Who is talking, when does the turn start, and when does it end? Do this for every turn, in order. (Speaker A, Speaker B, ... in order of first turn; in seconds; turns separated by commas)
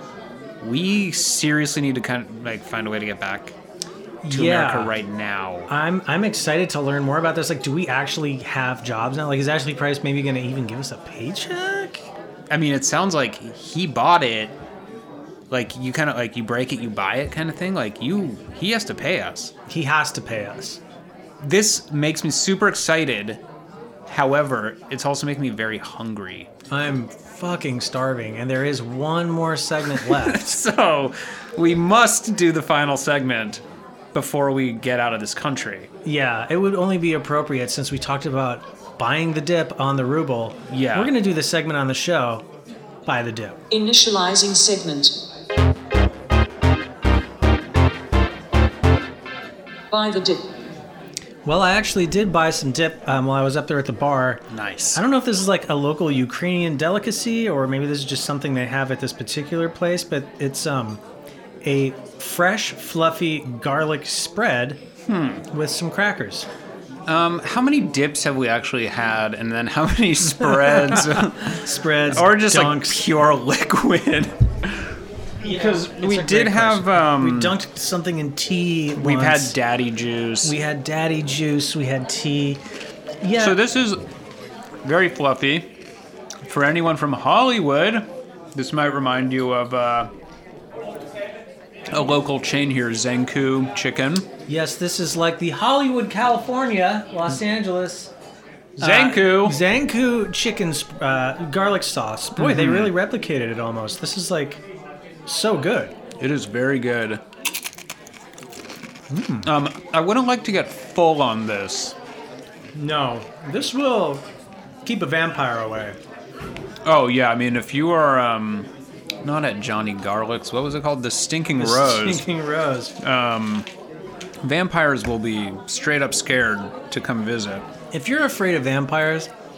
Speaker A: 0.6-3.5, Speaker B: 4.2-4.9, Speaker A: 4.3-5.7, Speaker B: 5.7-12.1, Speaker A: 12.5-14.6, Speaker A: 15.5-19.5, Speaker B: 19.7-20.8, Speaker A: 21.4-23.4, Speaker A: 24.1-26.5, Speaker B: 26.7-30.6, Speaker A: 30.0-33.6, Speaker A: 34.1-35.9, Speaker B: 36.0-42.5, Speaker A: 40.7-41.1, Speaker B: 43.0-43.6, Speaker C: 43.7-45.1, Speaker C: 49.9-50.4, Speaker B: 51.4-61.0, Speaker A: 54.5-55.0, Speaker B: 61.6-64.8, Speaker A: 65.1-65.4, Speaker B: 65.5-66.5, Speaker A: 67.0-74.9, Speaker B: 70.9-73.1, Speaker B: 75.4-79.5, Speaker A: 75.4-77.6, Speaker A: 78.9-80.5, Speaker B: 80.4-82.6, Speaker B: 83.2-83.6, Speaker A: 83.4-84.0, Speaker A: 84.8-85.7, Speaker A: 86.4-90.1, Speaker A: 91.9-94.3, Speaker B: 94.5-98.1, Speaker A: 98.8-99.6, Speaker B: 98.8-104.6, Speaker A: 102.3-102.9, Speaker B: 105.2-105.9, Speaker A: 106.2-107.2, Speaker B: 109.1-109.5, Speaker A: 109.4-112.0, Speaker B: 112.7-114.2, Speaker B: 114.8-116.0, Speaker A: 116.8-118.7, Speaker A: 119.2-122.3, Speaker B: 121.6-122.9, Speaker A: 123.0-123.7, Speaker A: 124.4-127.7, Speaker B: 127.9-129.3